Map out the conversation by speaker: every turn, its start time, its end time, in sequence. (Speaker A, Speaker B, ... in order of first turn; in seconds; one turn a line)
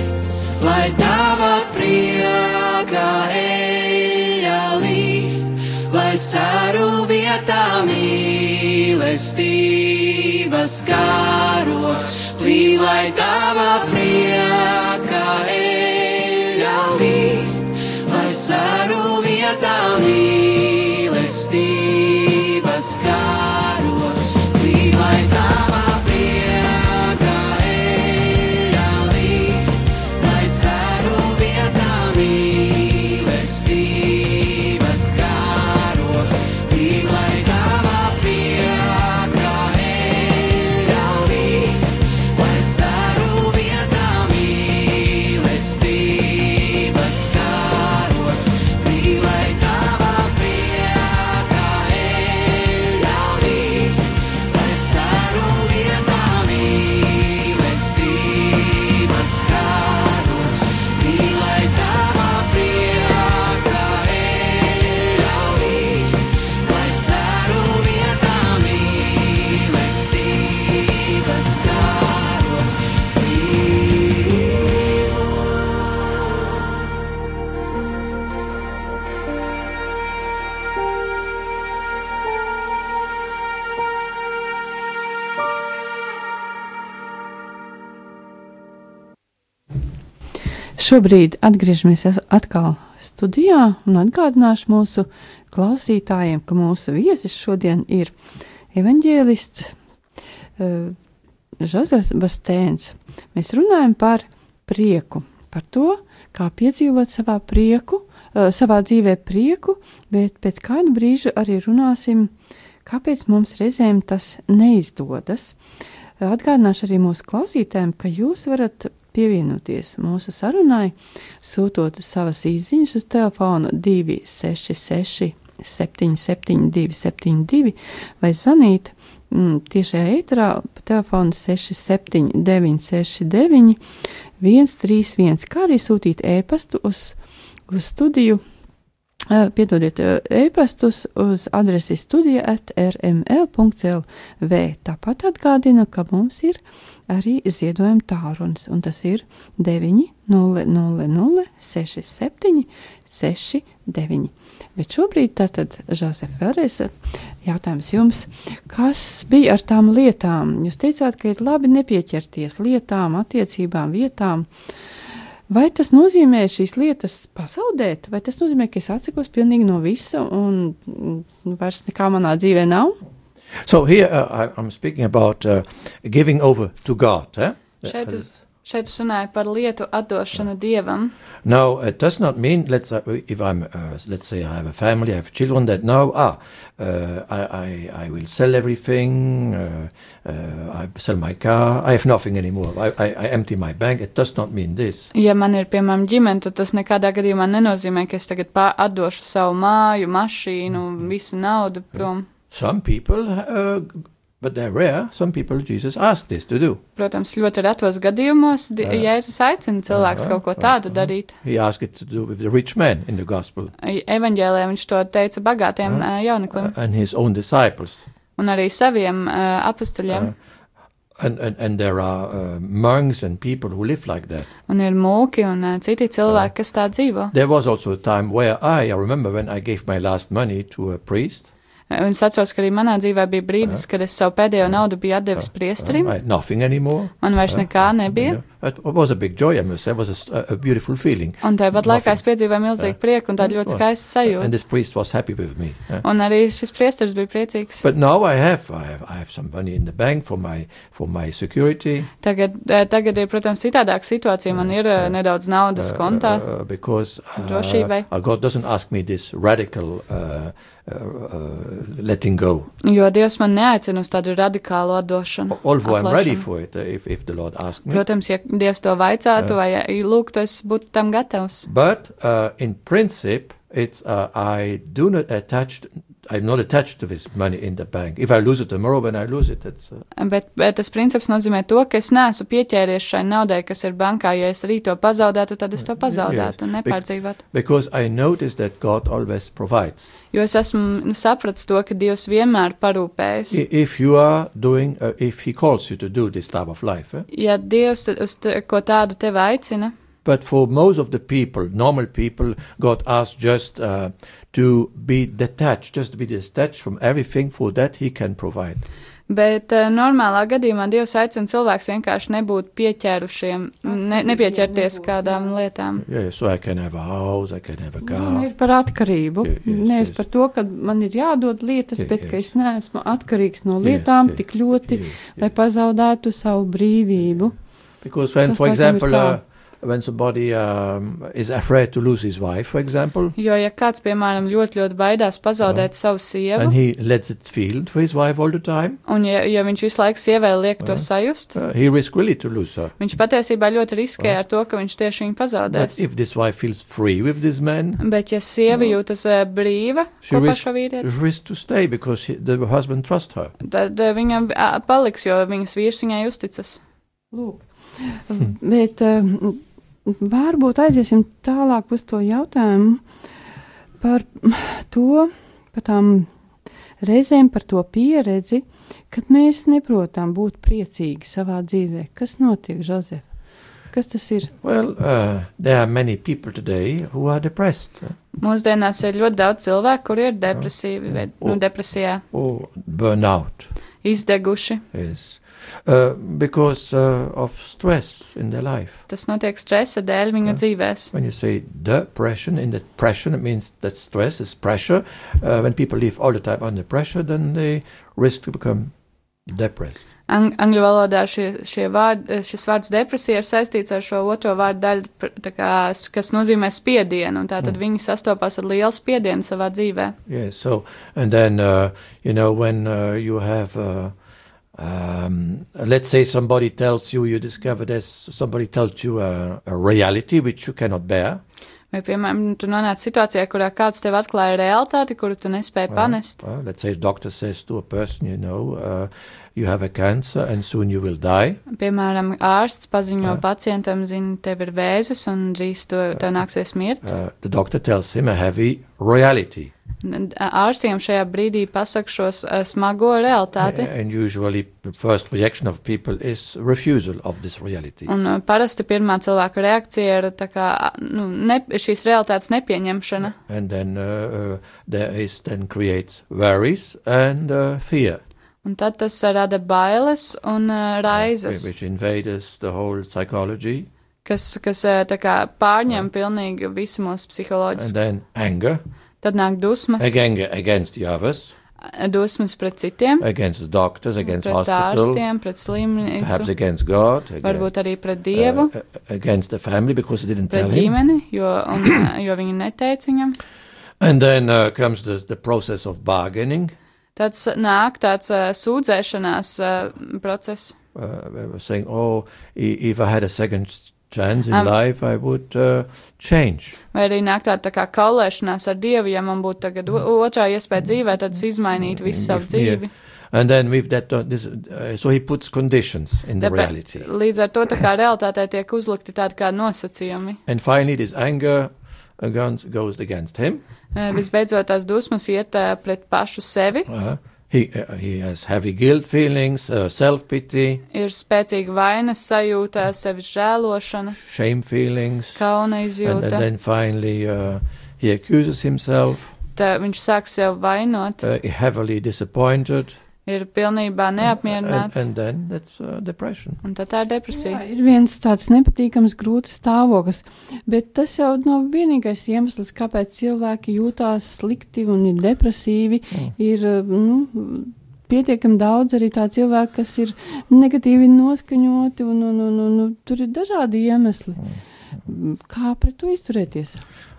Speaker A: 0.6-74.7
Speaker B: 90.8-98.2
Speaker B: 98.7-99.7
Speaker B: 100.6-100.9
Speaker B: 101.6-112.3
Speaker B: 112.8-115.6
Speaker B: 116.2-133.8
Speaker B: 134.4-137.2
Speaker B: 137.7-138.4
Speaker B: 139.3-164.5
Speaker B: 165.5-173.0
Speaker C: 173.6-178.2
Speaker D: 177.8-181.1
Speaker C: 181.4-195.1
Speaker D: 195.1-202.3
Speaker C: 202.5-206.8
Speaker D: 206.9-211.3
Speaker C: 208.8-209.1
Speaker C: 209.9-213.7
Speaker D: 213.8-216.7
Speaker C: 215.8-218.1
Speaker D: 218.3-220.3
Speaker C: 221.2-224.5
Speaker D: 224.7-227.3
Speaker C: 227.3-231.5
Speaker D: 231.9-236.1
Speaker C: 235.4-242.2
Speaker D: 237.2-238.4
Speaker D: 241.4-244.5
Speaker C: 242.8-246.0
Speaker D: 246.0-247.8
Speaker C: 247.8-252.1
Speaker D: 252.2-256.4
Speaker C: 255.7-262.7
Speaker D: 257.4-258.1
Speaker D: 262.8-266.4
Speaker C: 265.5-268.0
Speaker D: 267.9-271.7
Speaker C: 271.6-280.0
Speaker D: 280.1-287.4
Speaker C: 286.0-290.1
Speaker D: 290.3-293.6
Speaker C: 293.5-297.3
Speaker D: 297.3-299.9
Speaker C: 300.2-308.8
Speaker D: 309.3-316.0
Speaker B: 313.8-315.6
Speaker C: 316.0-318.5
Speaker B: 318.0-327.6
Speaker C: 319.4-320.2
Speaker C: 322.0-322.4
Speaker C: 323.8-325.5
Speaker C: 328.0-333.3
Speaker B: 328.4-329.4
Speaker D: 333.4-336.7
Speaker C: 335.6-335.9
Speaker C: 336.5-339.0
Speaker D: 339.1-341.6
Speaker C: 340.8-342.9
Speaker D: 343.0-346.0
Speaker C: 345.7-348.0
Speaker D: 348.0-351.1
Speaker C: 350.2-353.5
Speaker D: 353.6-356.8
Speaker B: 357.3-363.0
Speaker B: 364.0-366.3
Speaker B: 367.0-373.3
Speaker B: 373.9-374.5
Speaker C: 374.6-378.1
Speaker D: 378.4-382.2
Speaker C: 381.3-381.6
Speaker C: 382.2-383.7
Speaker D: 384.0-384.8
Speaker C: 384.9-389.0
Speaker D: 389.1-391.1
Speaker C: 391.1-398.9
Speaker C: 399.4-400.0
Speaker D: 400.3-410.1
Speaker C: 410.3-414.1
Speaker C: 414.7-421.4
Speaker D: 421.9-426.4
Speaker C: 425.9-431.6
Speaker D: 431.7-437.0
Speaker C: 437.0-439.7
Speaker D: 440.0-443.9
Speaker C: 443.6-448.1
Speaker D: 448.1-453.4
Speaker C: 453.3-458.2
Speaker D: 458.6-461.7
Speaker C: 461.1-463.9
Speaker D: 464.2-467.9
Speaker C: 467.7-468.8
Speaker D: 469.2-470.1
Speaker C: 470.0-471.5
Speaker D: 471.8-473.3
Speaker C: 473.2-475.2
Speaker D: 474.2-476.5
Speaker C: 476.2-477.7
Speaker D: 477.4-478.7
Speaker C: 478.3-480.9
Speaker D: 480.5-483.4
Speaker C: 484.0-486.7
Speaker D: 487.1-490.8
Speaker C: 490.9-496.8
Speaker D: 496.9-502.9
Speaker C: 501.8-507.1
Speaker D: 506.4-510.4
Speaker C: 510.5-513.6
Speaker D: 513.9-516.9
Speaker C: 516.9-520.8
Speaker D: 520.9-524.2
Speaker C: 524.2-525.4
Speaker D: 525.3-526.4
Speaker C: 526.0-529.3
Speaker D: 529.5-531.2
Speaker C: 531.2-533.0
Speaker D: 533.2-535.0
Speaker C: 534.2-536.6
Speaker D: 536.6-537.6
Speaker B: 537.3-554.4
Speaker B: 555.0-556.8